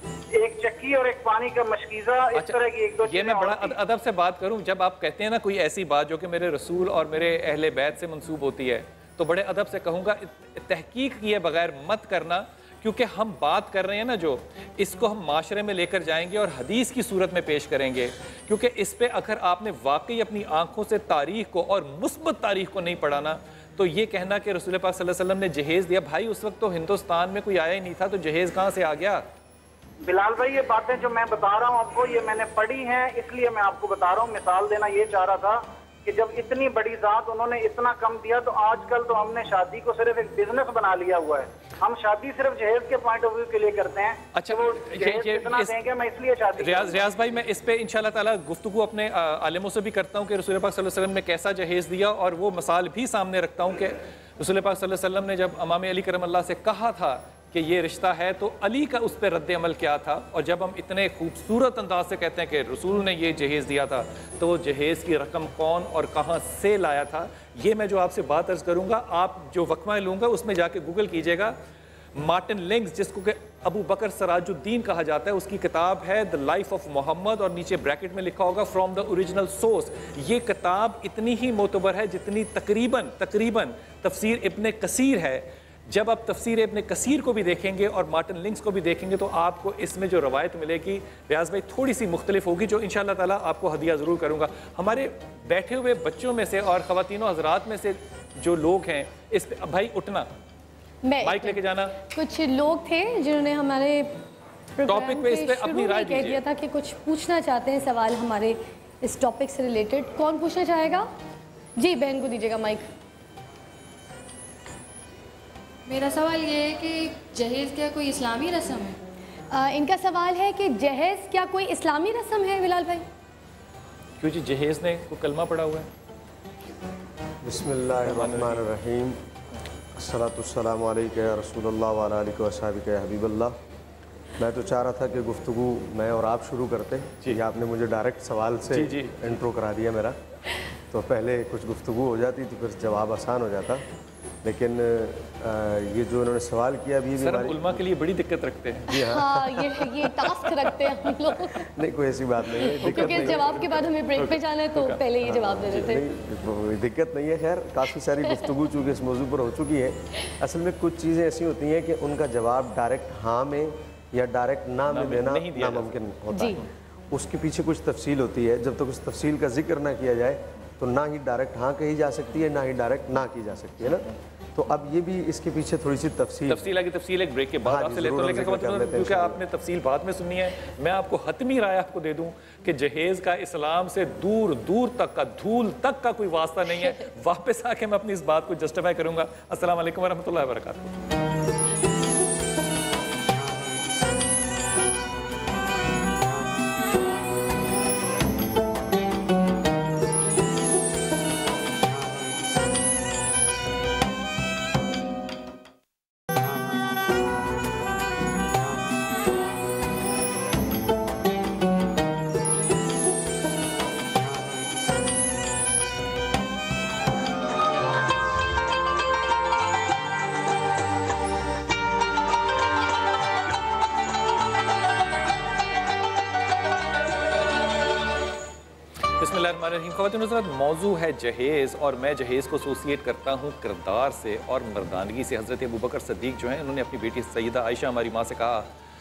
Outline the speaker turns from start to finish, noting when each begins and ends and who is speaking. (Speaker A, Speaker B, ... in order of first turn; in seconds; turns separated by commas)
Speaker A: 0.4-3.8, Speaker B: 2.4-29.2, Speaker A: 30.1-47.0, Speaker B: 44.4-45.7, Speaker B: 46.6-71.6, Speaker B: 72.2-100.3, Speaker C: 101.0-104.1, Speaker B: 101.2-102.0, Speaker C: 104.8-111.1, Speaker B: 104.9-106.4, Speaker C: 111.8-112.9, Speaker D: 115.9-119.0, Speaker C: 119.5-123.0, Speaker B: 124.2-125.9, Speaker E: 127.4-129.2, Speaker B: 128.0-128.7, Speaker E: 129.9-133.6, Speaker E: 134.4-140.2, Speaker B: 138.7-139.2, Speaker E: 140.9-143.8, Speaker E: 144.4-147.8, Speaker B: 147.2-149.1, Speaker E: 148.9-149.4, Speaker C: 149.1-151.6, Speaker E: 151.7-153.6, Speaker C: 152.6-156.0, Speaker B: 152.8-153.6, Speaker B: 154.2-155.0, Speaker E: 155.2-176.7, Speaker B: 164.9-165.9, Speaker B: 176.5-190.9, Speaker E: 177.6-179.4, Speaker B: 229.2-238.7